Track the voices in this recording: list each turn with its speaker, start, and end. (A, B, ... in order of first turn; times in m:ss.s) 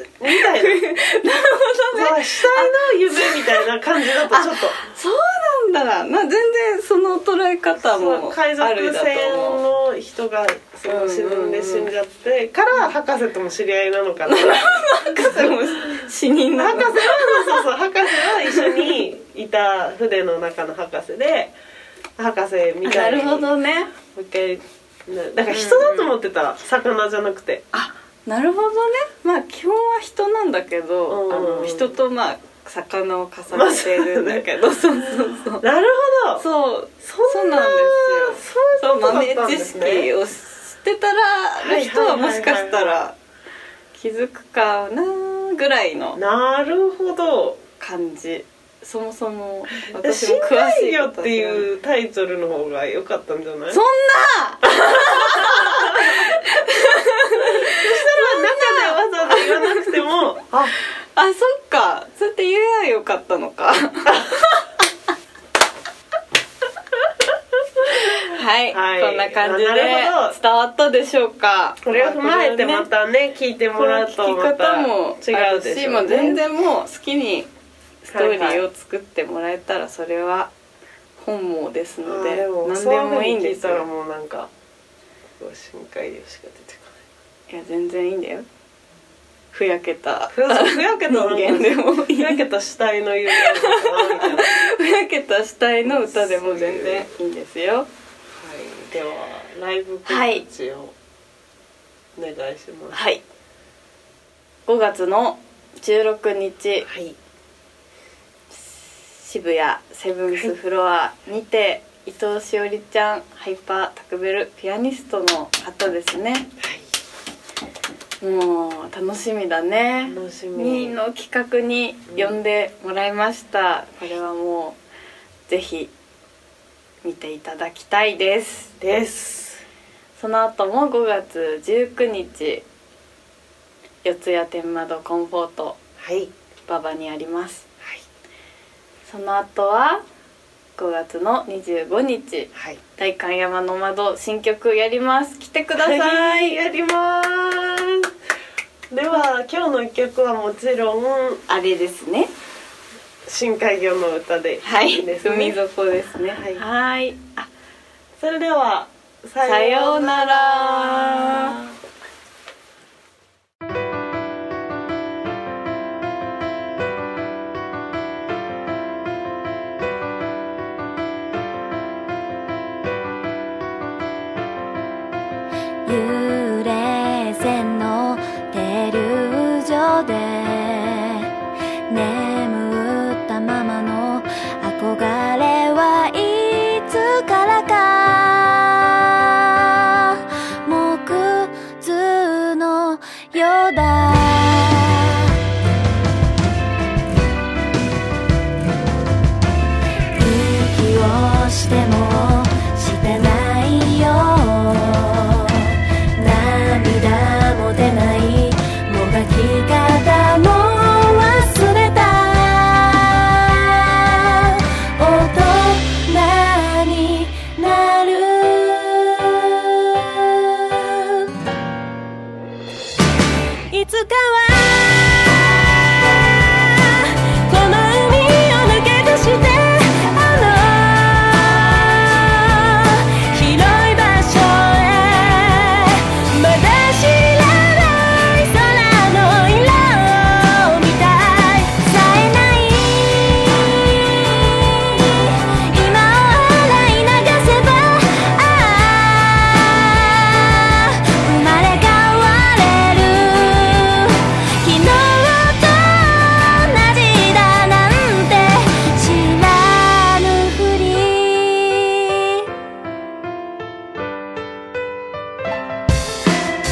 0:00.2-0:00.8 A
0:00.3-0:09.6 B
0:01.9-0:04.8 A
0:07.8-0:21.6 A
0:10.9-0:11.9 B
0:14.2-0:19.0 B
0:22.2-0:23.5 A
0:22.8-0:23.9 B
0:24.1-0:27.6 A
0:25.5-0:26.1 B
0:27.7-0:35.6 B
0:31.1-0:31.9 A
0:33.5-0:34.5 A
0:35.6-0:36.4 A
0:36.4-0:43.2 B
0:37.0-0:40.1 A
0:41.6-0:43.0 A
0:43.9-0:46.2 B
0:46.1-0:47.6 A
0:47.8-0:51.6 B
0:49.9-0:53.8 A
0:53.7-1:00.1 B
0:54.8-0:56.3 A
0:57.4-1:00.7 A
1:01.1-1:04.6 B
1:07.8-1:10.4 A
1:08.2-1:12.9 B
1:11.8-1:16.4 A
1:13.8-1:17.5 B
1:18.0-1:20.5 B
1:18.1-1:18.6 A
1:21.2-1:23.9 B
1:22.0-1:24.5 A
1:25.4-1:27.0 A
1:27.5-1:28.5 B
1:29.5-1:32.4 B
1:30.3-1:34.5 A
1:33.3-1:37.9 B
1:35.8-1:37.1 A
1:38.4-1:40.9 A
1:40.1-1:40.4 B
1:42.1-1:43.0 A
1:42.9-1:43.2 B
1:44.7-1:46.9 B
1:46.9-1:47.2 A
1:48.5-1:56.5 B
1:56.6-1:56.9 A
1:58.2-2:04.8 B
2:00.1-2:01.0 A
2:02.1-2:02.4 A
2:05.5-2:05.9 B
2:07.0-2:08.7 B
2:08.8-2:09.6 A
2:10.2-2:12.6 B
2:14.0-2:15.8 B
2:16.0-2:16.3 A
2:16.7-2:17.7 B
2:19.1-2:20.0 B
2:20.8-2:26.6 B
2:22.5-2:22.8 A
2:25.8-2:28.1 A
2:28.9-2:31.4 A
2:31.5-2:32.3 B
2:33.2-2:35.6 A
2:34.6-2:37.5 B
2:36.3-2:36.6 A
2:38.2-2:41.7 A
2:39.4-2:41.6 B
2:55.8-3:01.3 C
3:01.9-3:15.3 C
3:20.1-3:41.3 C
3:43.7-4:22.4 C